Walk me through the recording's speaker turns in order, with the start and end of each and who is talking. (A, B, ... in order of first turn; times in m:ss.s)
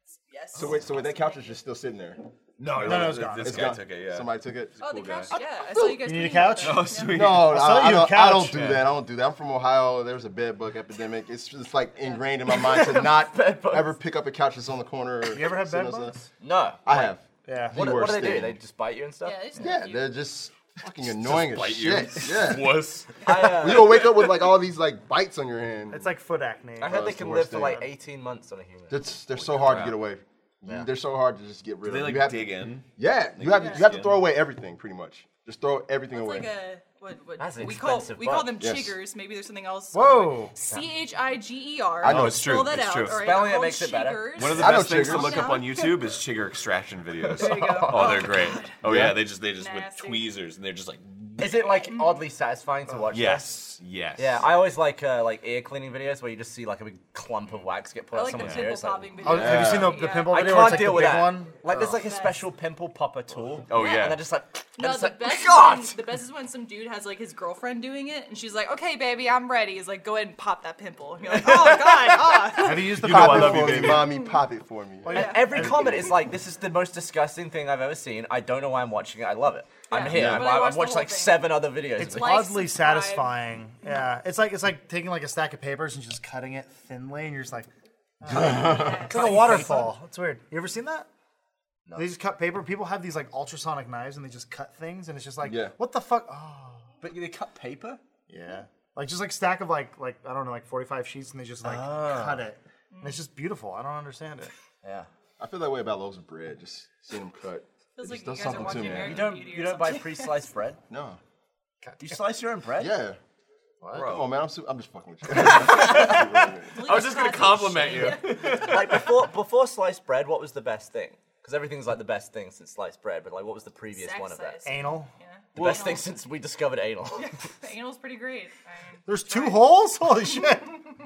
0:00.3-0:01.4 A
0:00.5-0:05.4 B
0:02.6-0:05.3 C
0:02.8-0:03.8 D
0:04.8-0:07.2 A
0:05.8-0:08.7 D
0:06.6-0:07.7 C
0:07.1-0:16.3 B
0:08.5-0:08.9 C
0:12.0-0:12.2 A
0:12.5-0:14.0 E
0:15.3-0:16.2 D
0:16.4-0:17.1 E
0:16.9-0:18.6 B
0:17.5-0:17.8 D
0:17.7-0:19.7 E
0:19.2-0:20.2 A
0:19.6-0:26.1 B
0:21.0-0:24.4 C
0:23.2-0:24.2 E
0:25.9-0:27.8 D
0:26.8-0:29.9 E
0:26.8-0:27.8 B
0:28.9-0:36.5 B
0:29.6-0:30.0 C
0:31.8-0:34.2 C
0:36.1-0:46.1 A
0:37.4-0:38.5 E
0:38.6-0:39.0 B
0:39.9-0:40.5 D
0:42.0-0:42.8 B
0:42.0-0:43.3 C
0:43.2-0:44.5 E
0:44.4-0:51.6 C
0:44.6-0:45.7 B
0:47.2-0:48.4 E
0:47.3-0:48.8 A
0:48.8-0:49.2 B
0:49.6-0:50.3 A
0:51.4-0:53.5 E
0:51.6-0:52.2 A
0:52.9-0:53.2 D
0:53.1-0:54.5 C
0:54.2-1:06.0 E
0:58.1-1:00.9 A
0:58.3-0:58.7 C
0:59.2-1:01.7 D
0:59.2-1:00.0 B
1:01.8-1:02.4 A
1:03.7-1:04.2 C
1:03.7-1:04.1 A
1:04.8-1:12.9 A
1:11.3-1:12.4 E
1:12.6-1:14.0 D
1:12.9-1:14.2 C
1:12.9-1:16.1 B
1:15.0-1:16.1 D
1:15.1-1:15.7 A
1:15.1-1:22.4 E
1:19.9-1:21.5 A
1:20.0-1:20.6 B
1:22.0-1:27.7 D
1:22.0-1:23.4 A
1:28.2-1:31.1 D
1:28.2-1:29.0 B
1:28.4-1:29.5 A
1:29.1-1:30.0 E
1:32.0-1:36.9 D
1:35.4-1:35.8 B
1:37.0-1:38.0 E
1:38.3-1:44.5 D
1:41.6-1:42.5 E
1:42.9-1:43.2 A
1:44.8-1:45.1 E
1:45.4-1:49.3 B
1:48.0-1:50.4 A
1:48.5-1:50.8 E
1:50.9-1:51.2 B
1:51.8-1:52.2 D
1:52.0-1:53.0 E
1:52.8-1:53.2 B
1:53.8-1:54.1 D
1:53.9-1:54.3 C
1:54.0-1:57.0 B
1:55.6-1:56.0 E
1:56.7-1:58.8 A
1:56.8-1:59.1 C
1:58.1-2:04.7 E
2:03.9-2:06.1 A
2:04.6-2:05.1 D
2:05.6-2:07.4 E
2:05.6-2:05.9 C
2:07.2-2:09.6 A
2:09.1-2:10.8 D